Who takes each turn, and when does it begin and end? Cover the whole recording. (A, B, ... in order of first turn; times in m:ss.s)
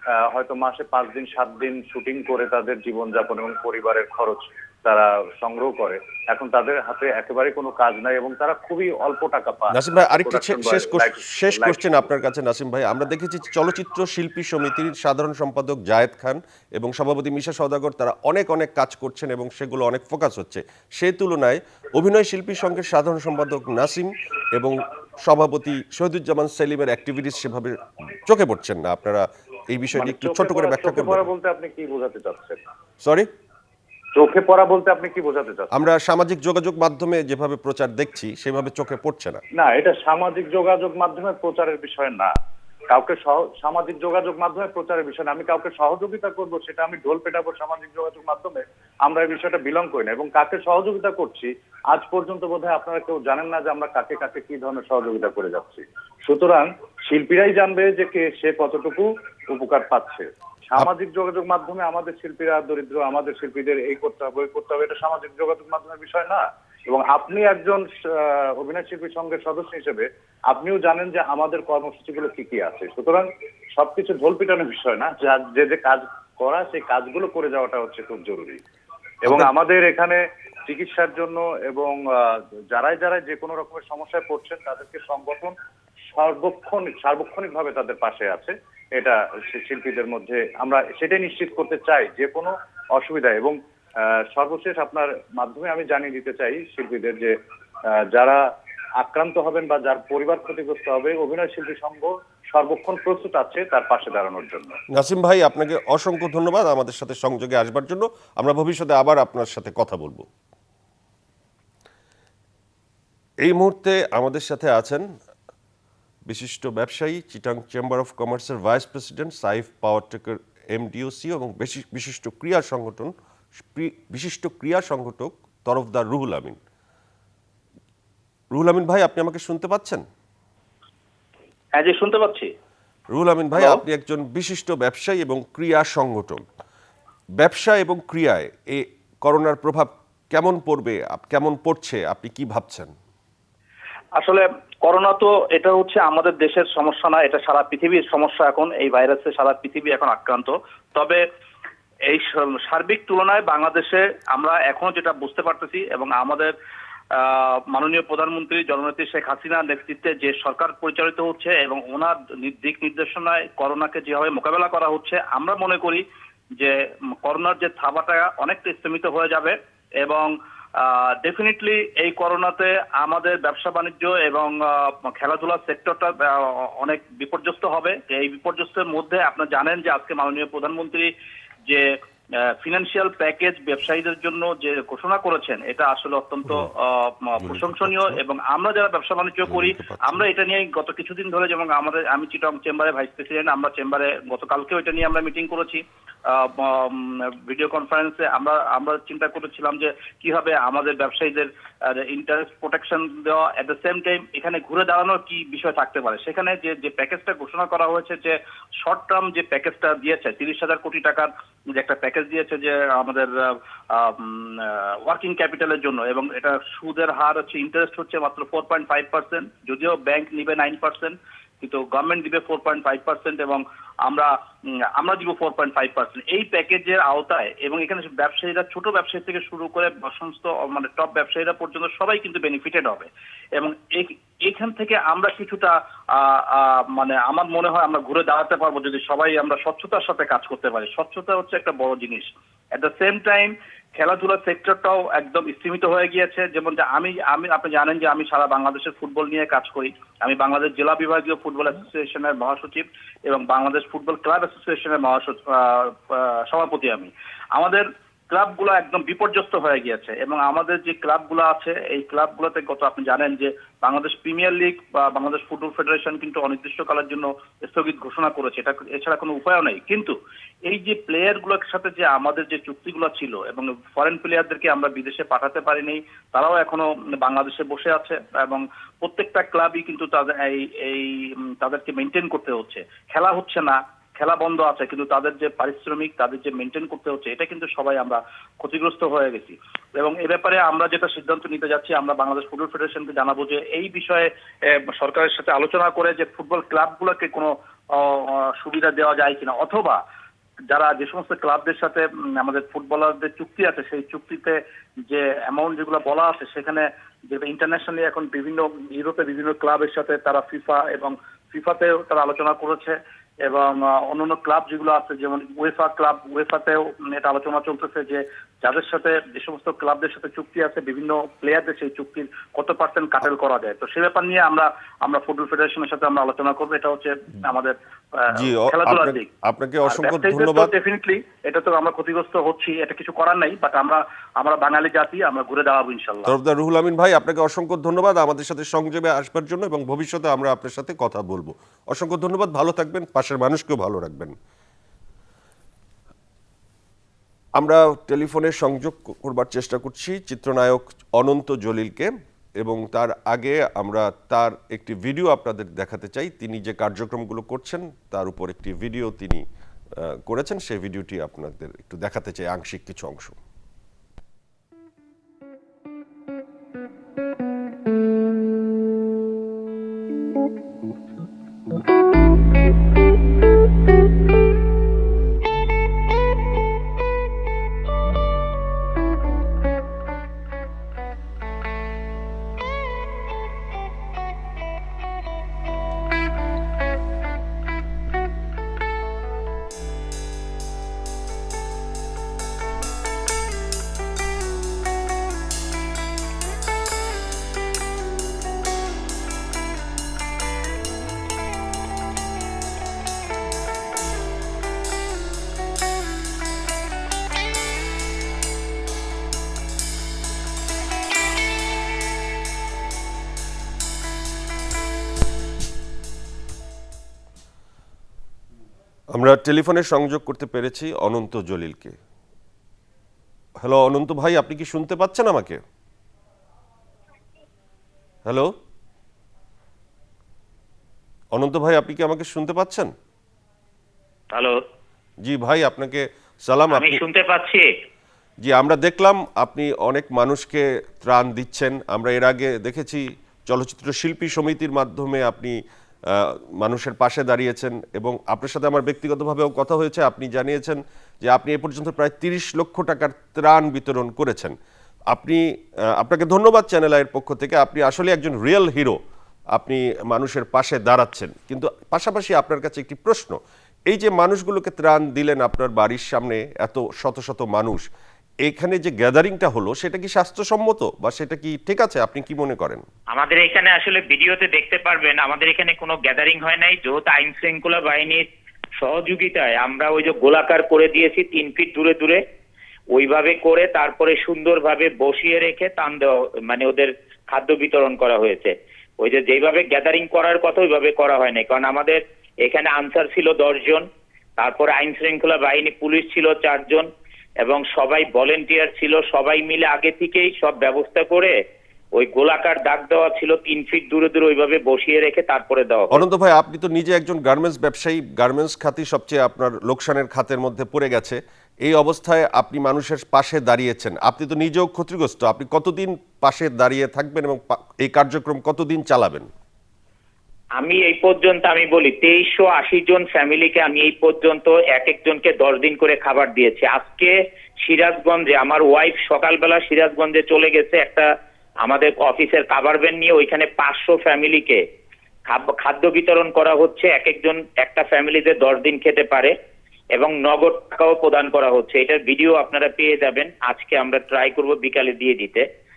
0:00.3-0:12.0 A
0:09.7-0:31.3 B
0:30.0-0:32.6 A
0:33.0-0:33.3 B
0:34.2-0:35.8 A
0:35.7-0:39.4 B
0:39.6-0:42.3 A
0:42.9-1:13.2 A
1:13.8-1:18.6 A
1:19.2-1:22.0 A
1:22.7-1:25.5 A
1:26.1-1:33.6 A
1:34.3-1:37.3 A
1:38.1-1:38.4 A
1:39.0-1:44.8 A
1:44.9-1:50.3 B
1:53.4-1:55.0 B
1:56.3-2:03.1 B
2:03.6-2:06.6 B
2:08.5-2:10.0 B
2:11.8-2:12.5 C
2:13.1-2:16.4 B
2:17.4-2:22.9 B
2:24.2-2:31.2 C
2:32.1-2:36.5 C
2:37.2-2:46.0 C
2:46.6-3:01.1 C
3:02.6-3:44.3 C
3:07.4-3:08.2 B
3:09.5-3:10.3 B
3:45.0-4:30.2 C
4:30.7-5:00.0 C
5:00.7-5:04.6 C
5:05.1-5:29.3 C
5:28.3-5:30.7 B
5:29.9-5:36.3 C
5:36.3-5:44.3 B
5:47.6-5:59.4 B
6:00.0-6:03.4 B
6:59.1-7:02.0 B
7:03.6-7:05.6 B
7:11.3-7:12.9 B
7:15.2-7:17.0 B
7:16.8-7:17.6 D
7:18.4-7:25.6 B
7:26.1-7:34.6 B
7:35.1-7:35.4 B
7:36.0-7:39.0 B
7:39.5-7:43.4 B
7:43.9-7:47.8 B
7:48.4-7:52.8 B
7:53.1-7:58.2 D
7:58.8-8:02.2 D
8:02.9-8:13.8 D
8:14.4-8:16.9 D
8:17.4-8:21.3 D
8:22.0-8:26.0 D
8:25.9-8:39.3 B
8:40.6-8:51.1 D
8:51.6-8:54.6 D
8:55.3-8:59.3 D
9:00.0-9:05.4 D